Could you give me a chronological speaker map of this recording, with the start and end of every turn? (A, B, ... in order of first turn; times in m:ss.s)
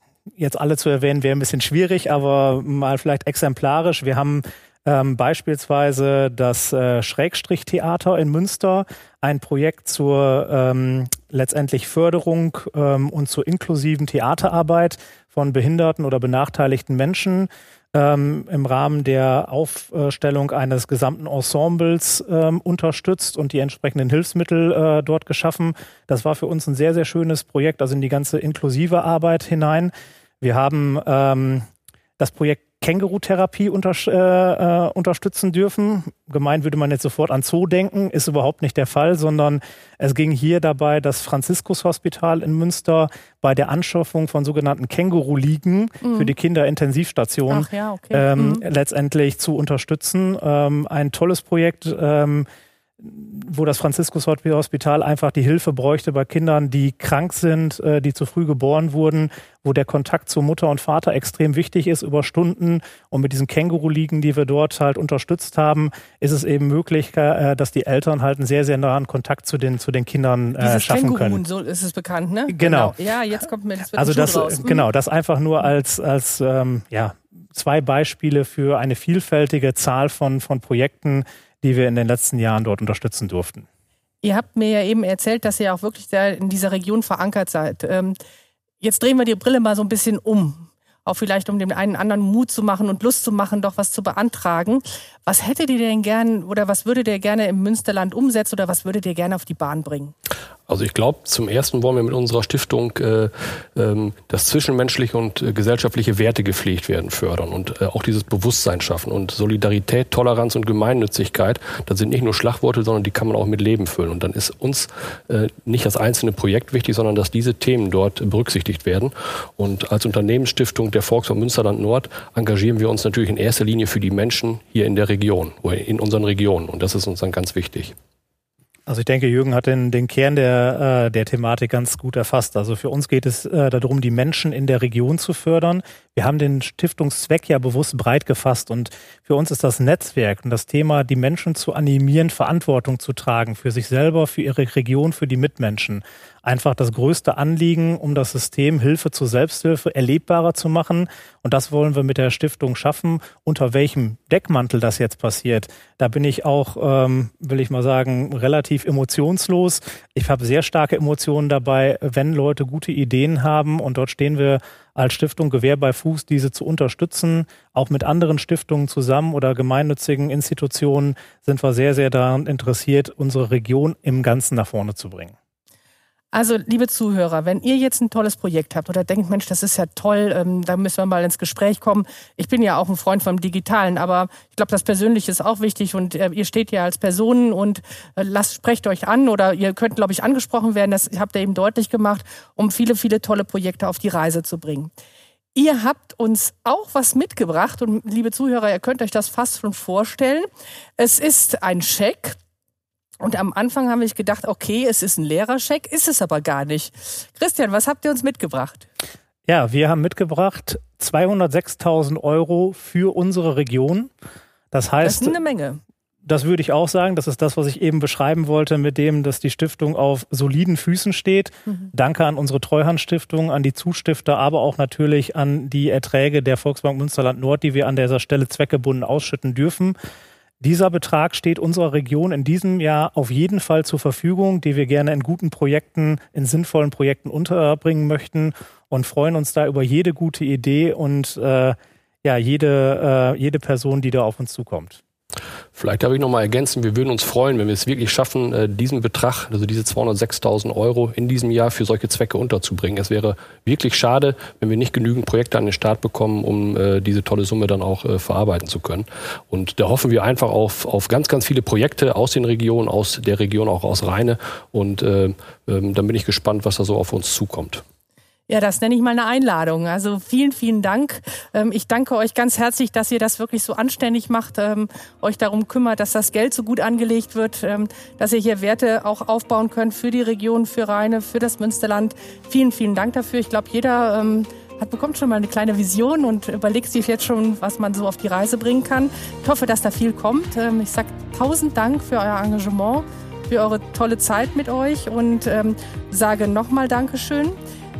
0:00.4-0:31.7 A
0:32.2-0:52.5 A
0:46.0-0:46.3 B
0:47.5-0:48.6 B
0:53.0-1:11.4 A
1:10.6-1:14.8 B
1:12.5-1:12.9 A
1:14.0-1:23.6 A
1:24.2-1:28.2 B
1:28.8-1:40.1 B
1:40.7-2:07.9 C
2:08.9-2:55.3 A
2:56.3-3:14.9 B
3:15.5-3:20.5 B
3:21.0-3:22.4 B
3:23.2-3:28.9 B
3:29.5-3:34.1 A
3:34.7-3:35.3 A
3:35.0-3:35.8 B
3:36.2-3:50.0 A
3:50.6-4:05.0 A
4:05.8-4:27.8 C
4:28.5-4:57.6 B